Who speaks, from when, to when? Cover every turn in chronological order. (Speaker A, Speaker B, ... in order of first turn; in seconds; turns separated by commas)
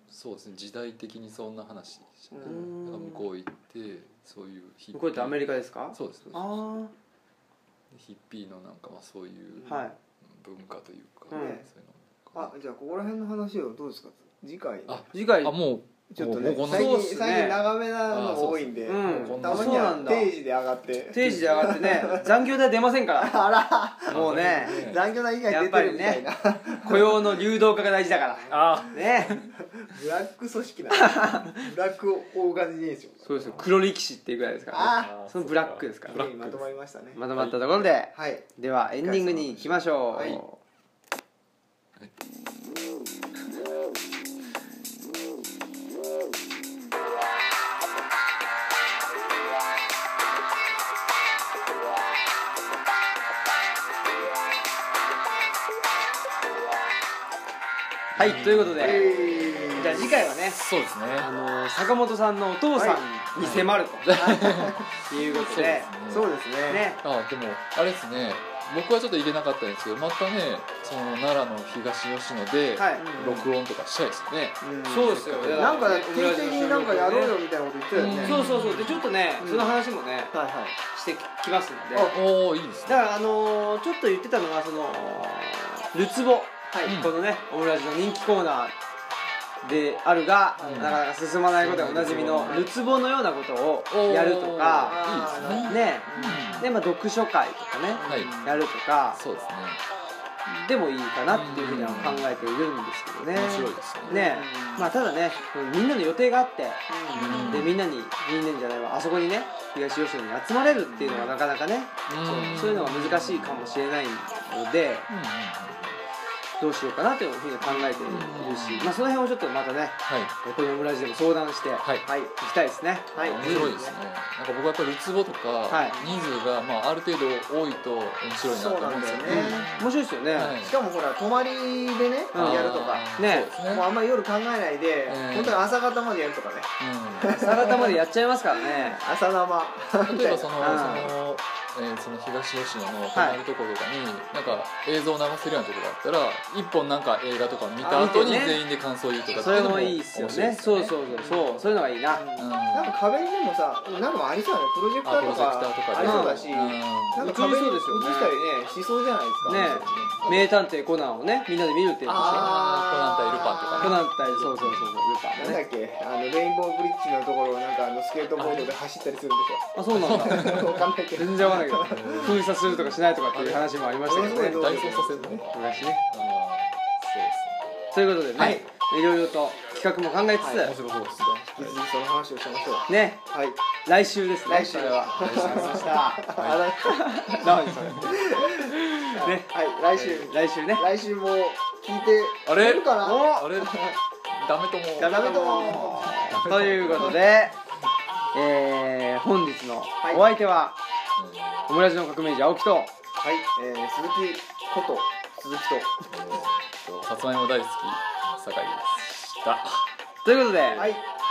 Speaker A: 0.1-6.8, Speaker B: 2.3-2.7, Speaker C: 2.4-3.3, Speaker C: 4.9-6.9, Speaker A: 7.9-12.5, Speaker C: 9.7-10.0, Speaker C: 11.3-11.6, Speaker B: 11.3-11.7, Speaker B: 12.3-15.1, Speaker A: 14.9-17.0, Speaker C: 15.1-15.5, Speaker B: 16.1-22.3, Speaker C: 16.7-17.6, Speaker A: 18.1-20.1, Speaker C: 18.9-20.3, Speaker C: 21.1-23.4, Speaker A: 21.2-21.7, Speaker B: 23.2-27.4, Speaker C: 24.1-24.8, Speaker A: 24.1-25.0, Speaker C: 25.5-26.3, Speaker C: 26.8-29.4, Speaker B: 28.2-33.6, Speaker A: 28.5-29.5, Speaker C: 30.9-31.7, Speaker C: 33.3-36.3, Speaker B: 34.7-35.1, Speaker A: 34.7-36.7, Speaker B: 36.1-37.2, Speaker C: 37.1-40.6, Speaker A: 37.3-37.9, Speaker B: 38.1-38.5, Speaker B: 39.0-40.4, Speaker A: 40.1-40.4, Speaker C: 58.2-59.1, Speaker A: 58.2-61.3, Speaker B: 58.8-60.2, Speaker C: 59.6-60.6, Speaker C: 61.2-64.2, Speaker B: 62.8-63.0, Speaker A: 63.4-66.3, Speaker B: 64.1-64.9, Speaker C: 65.1-65.9, Speaker B: 66.1-66.9, Speaker C: 66.7-67.0, Speaker A: 67.0-76.0, Speaker C: 72.8-73.1, Speaker B: 73.0-73.5, Speaker B: 74.6-78.5, Speaker C: 74.8-77.4, Speaker A: 77.9-79.0, Speaker C: 78.2-80.3, Speaker B: 79.4-79.8, Speaker B: 80.3-80.8, Speaker C: 80.9-82.2, Speaker A: 82.1-83.0, Speaker C: 82.9-88.8, Speaker A: 86.8-87.2, Speaker C: 89.6-95.0, Speaker B: 90.6-91.0, Speaker A: 90.6-91.0, Speaker A: 91.5-92.7, Speaker A: 93.9-96.7, Speaker B: 94.8-96.7, Speaker C: 95.6-99.2, Speaker B: 97.9-98.6, Speaker A: 98.1-98.4, Speaker A: 99.1-99.8, Speaker C: 100.5-115.1, Speaker A: 101.3-102.5, Speaker A: 103.3-104.2, Speaker B: 104.0-104.9, Speaker B: 106.9-107.7, Speaker A: 107.1-107.8, Speaker A: 111.0-111.4, Speaker A: 112.1-113.8, Speaker B: 112.2-112.8, Speaker A: 115.1-116.0, Speaker C: 116.6-123.8, Speaker A: 118.1-119.0, Speaker A: 120.1-120.3, Speaker B: 123.1-124.0, Speaker A: 123.2-130.8, Speaker C: 125.7-126.0, Speaker B: 125.8-126.2, Speaker B: 128.4-129.7, Speaker C: 129.3-130.6, Speaker B: 130.6-138.0, Speaker C: 132.3-133.5, Speaker A: 132.3-133.9, Speaker A: 135.1-135.6, Speaker A: 136.8-137.4, Speaker C: 137.3-139.1, Speaker B: 138.6-141.0, Speaker A: 140.0-151.4, Speaker C: 140.6-141.1, Speaker C: 143.1-143.4, Speaker B: 147.8-148.4, Speaker C: 147.9-148.6, Speaker C: 149.3-152.2, Speaker B: 151.2-151.5, Speaker B: 152.1-160.4, Speaker A: 152.4-153.0, Speaker A: 155.0-157.3, Speaker C: 156.0-156.6, Speaker C: 157.2-158.3, Speaker A: 159.4-160.5, Speaker C: 159.5-162.5, Speaker B: 162.1-164.0, Speaker A: 162.2-165.0, Speaker C: 163.8-165.6, Speaker B: 165.4-172.4, Speaker C: 169.8-174.6, Speaker A: 169.9-170.9, Speaker A: 171.7-177.8, Speaker B: 174.1-175.5, Speaker C: 175.5-176.0, Speaker C: 177.9-180.8, Speaker B: 178.4-178.6, Speaker A: 180.4-181.8, Speaker B: 181.6-183.6, Speaker C: 182.9-183.2, Speaker C: 183.8-190.9, Speaker B: 184.4-187.2, Speaker A: 185.1-188.2, Speaker B: 188.1-194.0, Speaker A: 192.5-197.3, Speaker C: 193.0-193.5, Speaker C: 195.0-197.6, Speaker B: 195.0-196.1, Speaker C: 198.3-200.8, Speaker A: 201.2-201.7, Speaker C: 201.7-202.9, Speaker B: 203.2-206.4, Speaker A: 206.1-209.9, Speaker C: 210.2-210.9, Speaker B: 210.8-211.0